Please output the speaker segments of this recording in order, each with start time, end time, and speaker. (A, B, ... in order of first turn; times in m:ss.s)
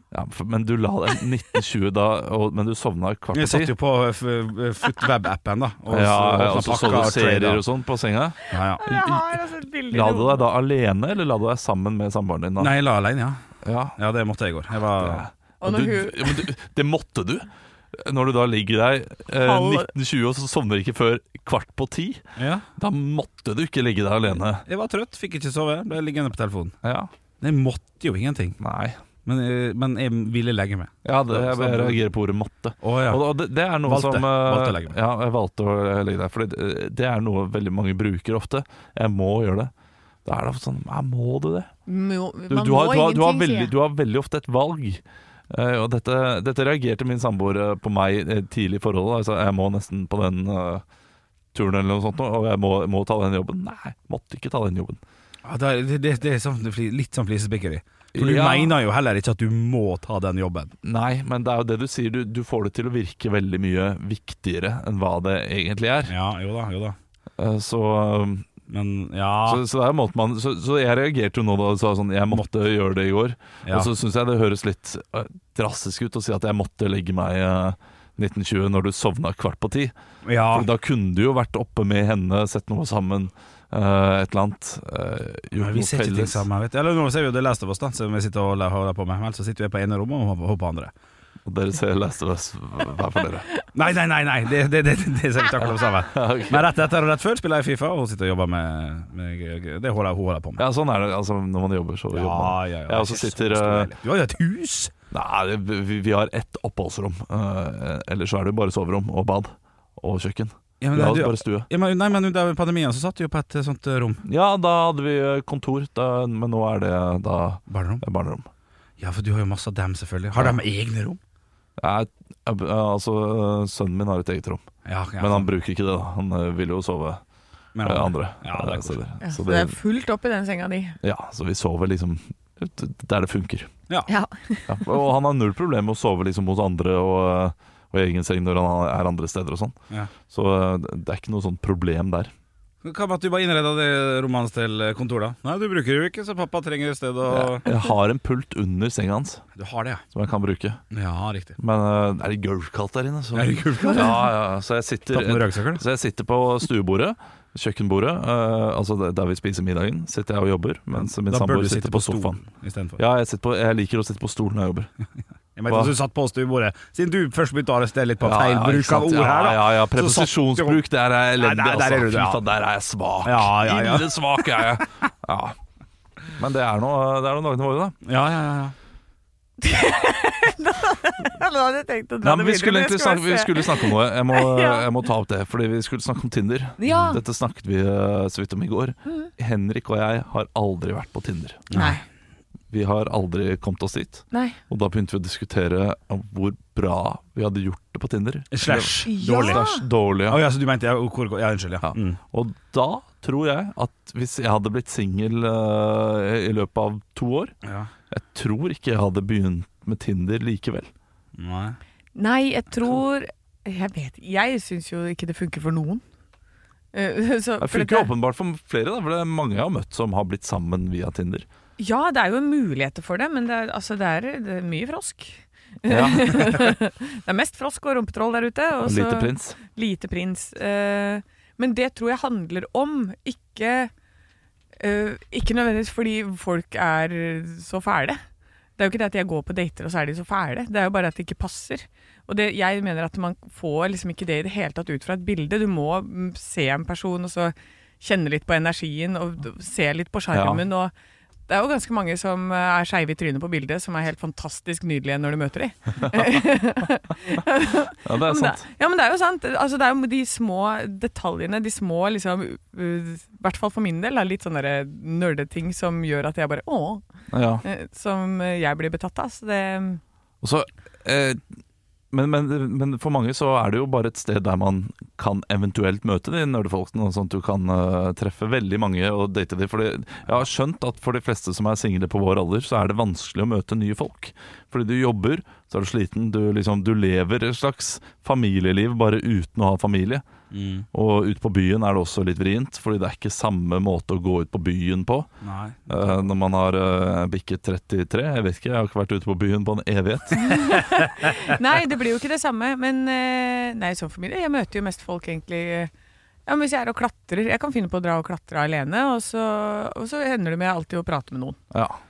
0:00.1-0:03.7 A
0:03.3-0:07.6 B
0:05.9-0:09.4 A
0:08.5-0:08.8 B
0:08.6-0:10.5 C
0:09.9-0:12.8 A
0:12.6-0:13.4 B
0:13.6-0:14.0 A
0:14.0-0:15.3 B
0:14.9-0:22.2 A
0:15.6-0:16.5 C
0:19.4-0:19.9 C
0:22.4-0:22.7 B
0:22.8-0:24.6 A
0:24.6-0:26.8 B
0:26.8-0:27.1 A
0:27.4-0:28.6 B
0:28.6-0:29.0 A
0:29.2-0:32.0 B
0:31.0-0:39.7 A
0:32.8-0:33.2 B
0:33.9-0:35.0 B
0:40.2-0:41.7 A
0:41.9-0:43.7 C
0:42.5-0:50.8 A
0:51.5-0:55.0 A
0:55.4-1:00.7 B
0:58.1-0:58.7 A
1:00.8-1:06.1 A
1:06.1-1:07.0 B
1:07.4-1:08.5 A
1:08.7-1:09.6 B
1:09.4-1:19.9 A
1:13.6-1:13.9 B
1:20.2-1:20.7 B
1:20.5-1:26.5 A
1:25.6-1:30.9 B
1:31.5-1:33.5 A
1:33.7-1:40.6 B
1:36.1-1:36.7 A
1:40.6-1:43.9 A
1:42.1-1:44.9 B
1:45.1-1:51.7 A
1:50.8-1:54.2 B
1:54.3-1:58.5 A
1:57.7-1:58.0 B
1:59.0-2:01.2 B
2:01.8-2:07.2 A
2:04.9-2:05.5 B
2:07.8-2:09.0 B
2:07.8-2:09.8 A
2:09.2-2:11.0 C
2:11.0-2:13.7 A
2:14.1-2:14.9 C
2:14.7-2:19.8 A
2:20.3-2:22.3 A
2:22.8-2:27.6 B
2:27.3-2:29.5 A
2:29.6-2:30.0 B
2:30.1-2:30.8 A
2:30.9-2:31.6 B
2:31.6-2:42.4 A
2:33.3-2:34.3 B
2:35.1-2:35.8 B
2:40.9-2:43.0 B
2:43.0-2:44.9 A
2:45.6-2:50.8 B
2:45.7-2:45.9 A
2:48.2-2:55.6 A
2:51.4-2:52.4 B
2:53.2-2:54.8 B
2:56.4-2:58.0 A
2:58.0-2:58.7 B
2:59.6-3:04.9 C
3:02.2-3:11.7 A
3:06.8-3:07.2 C
3:11.7-3:12.0 B
3:11.7-3:12.0 C
3:12.7-3:20.4 A
3:14.3-3:14.6 C
3:18.5-3:19.6 B
3:19.0-3:19.8 C
3:20.3-3:22.2 B
3:21.8-3:27.5 A
3:27.6-3:27.9 B
3:28.1-3:30.9 A
3:31.4-3:31.8 B
3:32.2-3:36.0 C
3:36.9-3:38.1 C
3:37.6-3:41.5 A
3:41.8-3:53.9 C
3:45.9-3:46.6 A
3:48.8-3:49.6 A
3:54.8-3:58.2 C
3:58.8-4:10.9 C
4:10.3-4:10.6 A
4:11.5-4:27.1 C
4:18.0-4:18.6 A
4:27.3-4:27.6 A
4:27.6-4:30.0 C
4:30.4-4:31.4 A
4:32.1-4:50.2 A
4:50.5-4:50.9 B
4:50.9-4:55.3 A
4:55.4-4:56.2 B
4:55.9-5:01.0 A
5:00.4-5:05.9 C
5:06.5-5:11.6 C
5:11.7-5:12.0 A